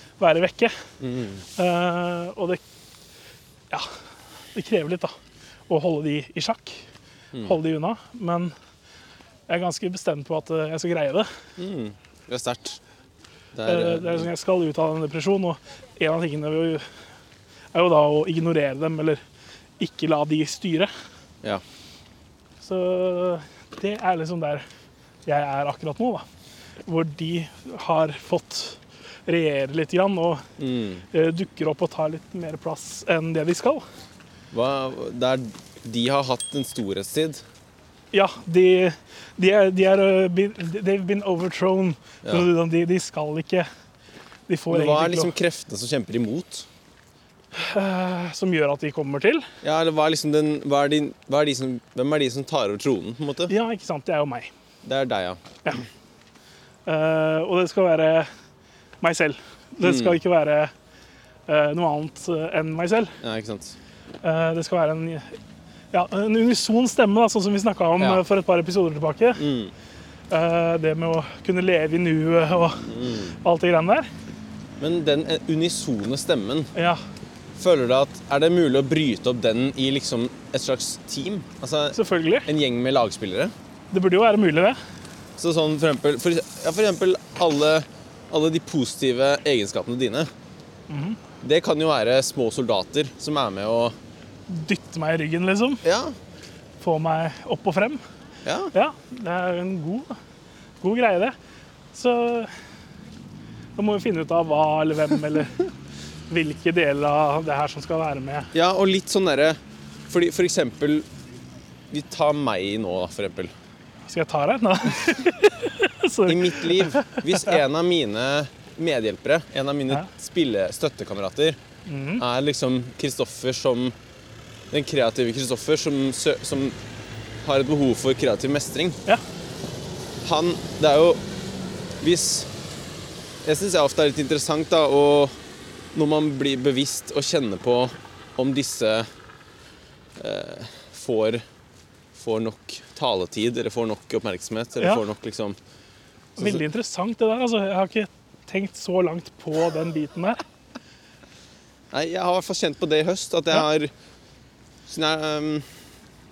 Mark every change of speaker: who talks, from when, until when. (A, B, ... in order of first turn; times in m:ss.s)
0:00.2-0:00.7 A
0:01.0-0:01.4 B
0:01.6-0:02.6 A
0:04.5-0:05.1 A
0:05.7-0:06.8 A
0:07.4-0:08.5 A
0:09.5-0:11.3 A
0:11.6-0:12.8 B
0:13.5-0:14.3 B
0:13.6-0:16.8 A
0:17.7-0:19.2 A
0:19.8-0:20.9 A
0:22.6-0:24.6 A
0:25.3-0:26.3 A
0:26.9-0:30.4 A
0:30.6-0:31.0 B
0:31.1-0:33.8 A
0:34.5-0:37.4 B
0:38.1-0:43.7 A
0:44.5-0:45.3 A
0:44.7-0:46.7 B
0:47.5-0:49.5 A
0:49.6-0:53.5 B
0:53.5-0:54.5 A
0:54.8-0:55.4 B
0:56.9-0:58.3 A
0:59.0-1:00.7 A
0:59.8-1:00.2 B
1:01.5-1:03.2 A
1:03.2-1:03.8 B
1:04.2-1:05.4 A
1:05.9-1:09.4 A
1:09.4-1:09.7 B
1:10.3-1:14.1 A
1:12.9-1:13.4 B
1:14.8-1:16.7 B
1:16.8-1:17.0 A
1:17.6-1:23.5 B
1:21.9-1:22.5 A
1:23.9-1:24.8 A
1:25.4-1:30.3 B
1:30.9-1:31.2 A
1:31.4-1:33.9 B
1:34.5-1:35.8 A
1:35.8-1:36.2 B
1:36.8-1:38.0 A
1:38.4-1:38.7 B
1:38.7-1:40.2 A
1:40.8-1:41.4 A
1:41.9-1:42.5 A
1:43.8-1:45.7 A
1:46.3-1:48.5 A
1:48.5-1:49.6 B
1:50.1-1:51.1 B
1:51.9-1:53.5 B
1:54.1-1:57.6 A
1:56.3-2:01.6 B
2:01.9-2:02.2 A
2:02.2-2:03.9 B
2:04.7-2:06.8 B
2:07.4-2:09.0 B
2:10.2-2:11.2 B
2:12.0-2:12.5 B
2:13.4-2:15.4 B
2:15.9-2:19.1 B
2:20.2-2:21.4 B
2:22.1-2:25.6 B
2:24.8-2:25.0 A
2:26.4-2:26.6 B
2:26.4-2:30.4 A
2:31.9-2:33.9 B
2:34.9-2:35.7 B